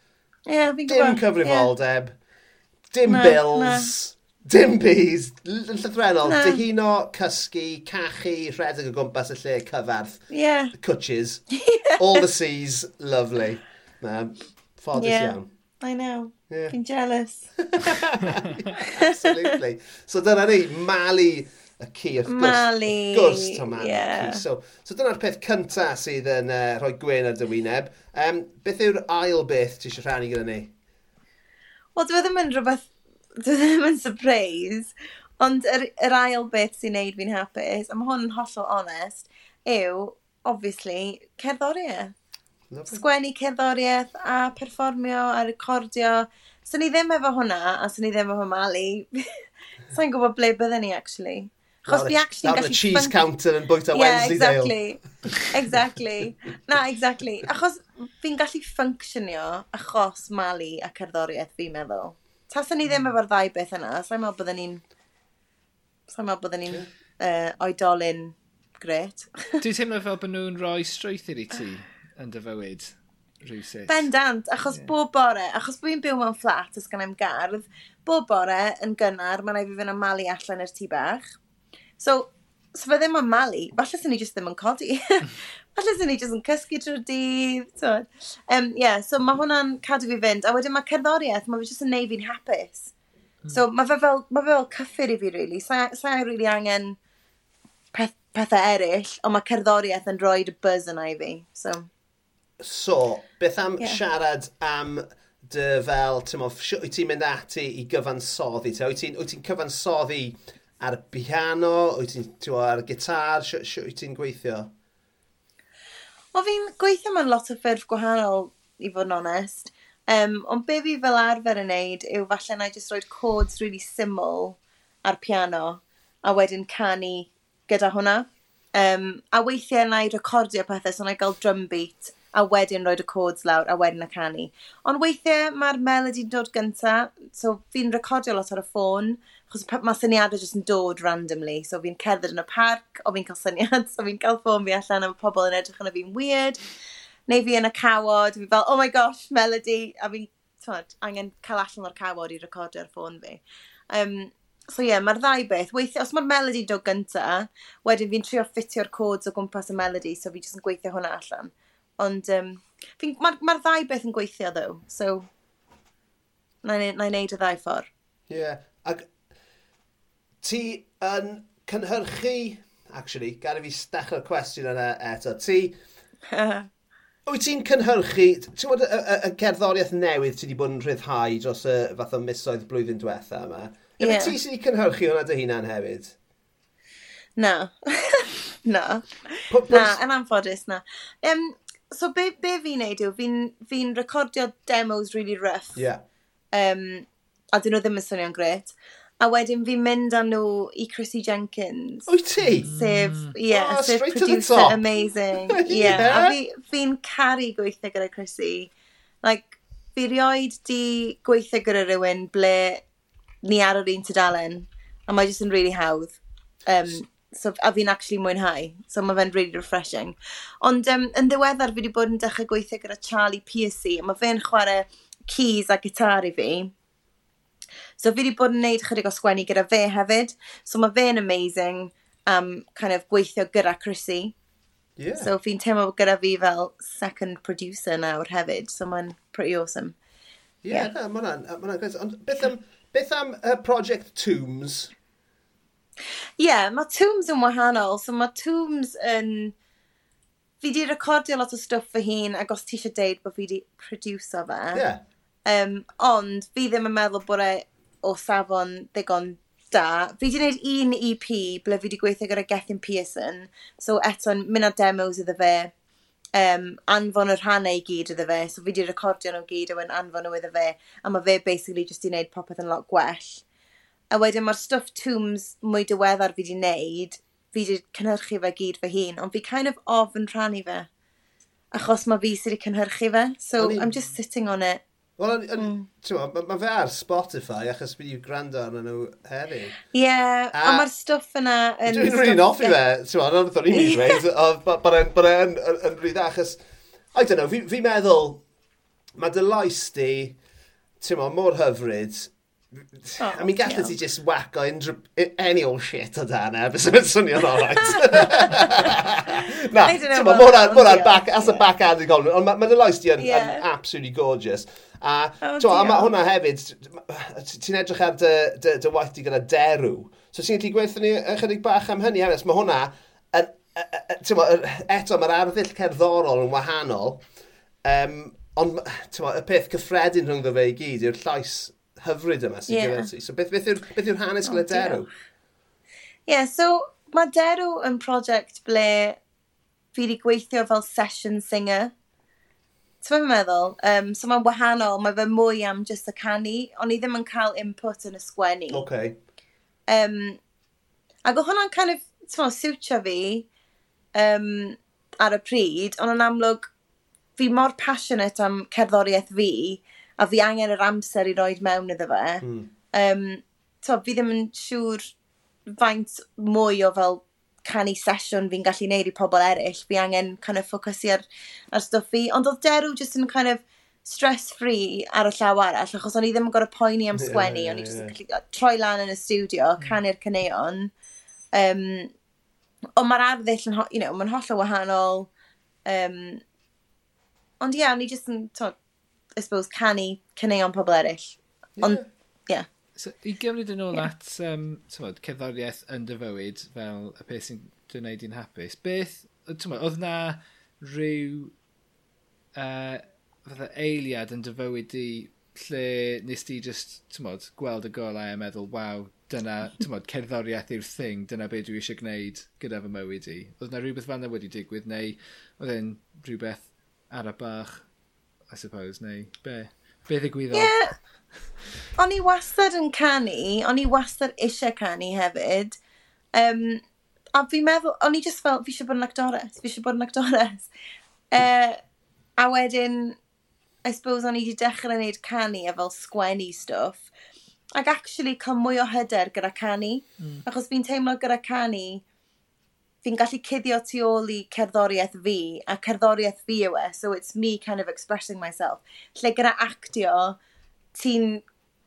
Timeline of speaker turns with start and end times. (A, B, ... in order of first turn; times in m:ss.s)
0:00.5-0:01.7 A
0:00.9-0:02.1 B
0:02.9-0:11.4 B
0:03.1-0:03.9 A
0:06.2-0:06.6 A
0:10.3-0:10.7 A
0:11.6-0:12.2 A
0:12.0-0:15.4 B
0:14.9-0:17.5 A
0:16.5-0:16.8 B
0:17.6-0:30.7 B
0:18.8-0:19.5 A
0:22.2-0:24.4 A
0:32.0-0:42.1 A
0:42.7-0:43.0 B
0:42.9-0:49.3 A
0:49.9-0:53.2 A
0:51.9-0:54.8 B
0:53.9-1:04.8 A
1:02.9-1:03.1 C
1:06.1-1:09.6 A
1:09.6-1:14.1 C
1:13.9-1:21.2 A
1:22.0-1:32.9 A
1:33.5-1:37.0 A
1:37.9-1:41.9 A
1:42.6-1:54.7 B
1:56.3-2:26.6 A
2:27.3-2:45.3 A
2:46.6-2:47.9 A
2:48.3-2:49.1 B
2:50.4-2:55.8 B
2:56.3-2:56.7 A
2:57.3-3:06.1 B
3:04.0-3:04.4 A
3:07.4-3:15.8 A
3:09.5-3:10.0 B
3:15.8-3:16.0 B
3:16.5-3:22.1 A
3:22.1-3:22.7 B
3:22.4-3:23.3 C
3:22.7-3:28.7 A
3:23.5-3:24.8 B
3:25.3-3:26.4 B
3:29.2-3:32.8 A
3:33.4-3:46.7 A
3:48.0-3:54.4 A
3:55.0-3:55.3 B
3:55.2-4:00.0 A
4:00.6-4:04.9 B
4:06.4-4:09.5 A
4:10.6-4:14.8 A
4:14.7-4:15.0 B
4:15.4-4:25.7 A
4:26.4-4:33.4 A
4:34.1-4:40.9 A
4:41.7-4:44.8 A
4:43.6-4:43.9 B
4:45.2-4:49.8 B
4:45.6-4:45.9 A
4:49.9-4:52.8 A
4:50.5-4:50.9 B
4:51.9-4:56.6 B
4:53.7-4:54.2 A
4:57.1-4:58.4 B
4:59.2-5:00.4 B
5:01.0-5:27.2 B
5:03.2-5:03.9 A
5:09.8-5:11.6 A
5:13.2-5:13.6 A
5:15.4-5:16.1 A
5:27.8-5:35.1 B
5:32.7-5:33.1 A
5:34.4-5:35.1 A
5:36.3-5:39.2 A
5:39.9-5:41.9 A
5:43.0-5:48.8 A
5:48.7-5:49.2 B
5:49.9-5:50.4 A
5:51.2-5:53.5 A
5:54.1-5:56.7 A
5:57.4-6:05.1 A
6:02.4-6:02.7 B
6:05.7-6:20.9 A
6:17.2-6:18.1 B
6:21.5-6:22.1 A
6:23.0-6:25.3 A
6:25.8-6:26.4 A
6:27.6-6:28.8 A
6:29.4-6:32.6 A
6:31.8-6:32.0 B
6:33.0-6:41.5 C
6:42.5-6:57.8 C
6:58.5-7:00.8 C
7:00.5-7:00.9 A
7:02.0-7:05.8 A
7:06.3-7:06.8 A
7:07.4-7:10.7 A
7:11.3-7:11.8 A
7:12.4-7:13.2 A
7:13.8-7:17.1 A
7:17.8-7:22.0 A
7:20.2-7:20.4 C
7:23.0-7:30.4 A
7:30.9-7:31.4 A